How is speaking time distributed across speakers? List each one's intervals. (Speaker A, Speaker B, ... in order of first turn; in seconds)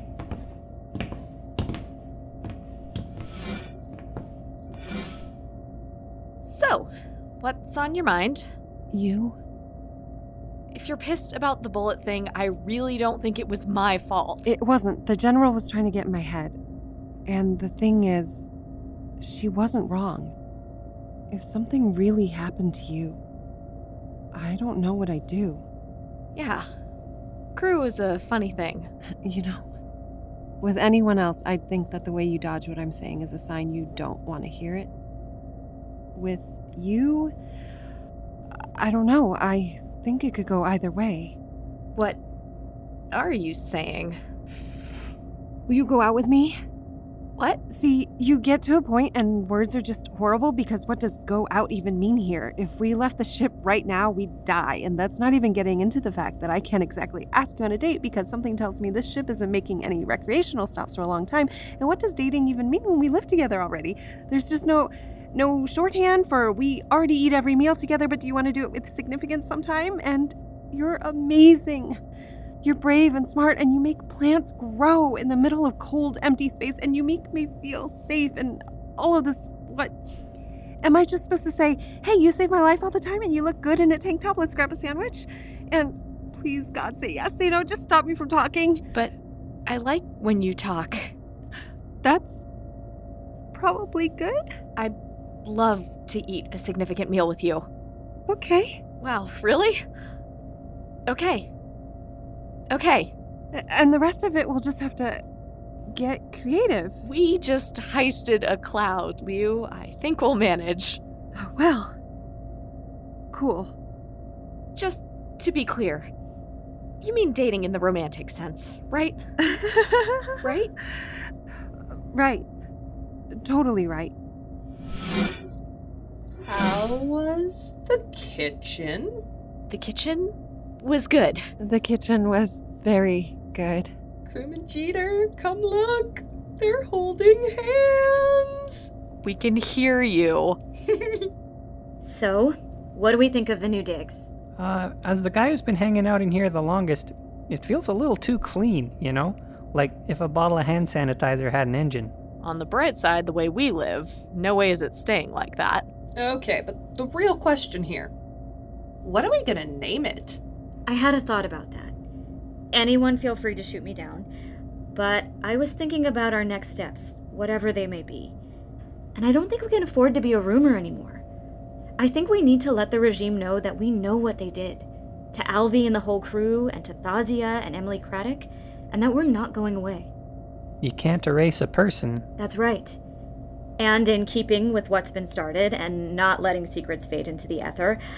Speaker A: 6.4-8.5, 10.7-14.5, 26.4-26.7, 27.6-28.9, 43.1-44.2, 89.7-91.1, 94.8-97.7, 99.0-99.8, 101.1-101.5, 102.7-103.1, 107.0-111.0, 114.8-116.1, 117.0-119.2, 120.4-120.7, 129.7-131.5, 139.2-140.6, 152.4-155.9
Speaker B: 8.9-9.4, 14.5-16.6, 17.3-18.5, 19.2-20.4, 21.3-23.2, 24.3-25.6, 29.2-29.6, 30.6-34.9, 36.2-37.3, 38.8-41.4, 45.7-46.6, 47.7-72.0, 72.6-80.0, 80.8-88.8, 92.0-92.4, 93.5-94.4, 98.3-98.8, 103.5-105.2, 105.9-107.0, 111.3-111.9, 113.3-113.7, 119.4-121.1, 122.1-122.5, 123.3-124.1, 131.6-133.9
Speaker C: 126.4-129.1, 134.3-138.9, 140.9-141.3, 156.2-158.1, 159.0-160.4
Speaker D: 142.0-144.3, 160.9-161.9, 162.7-164.3, 164.9-168.3, 169.2-171.2, 172.0-180.1, 182.4-183.0, 183.8-188.0
Speaker E: 144.6-152.1, 180.8-182.3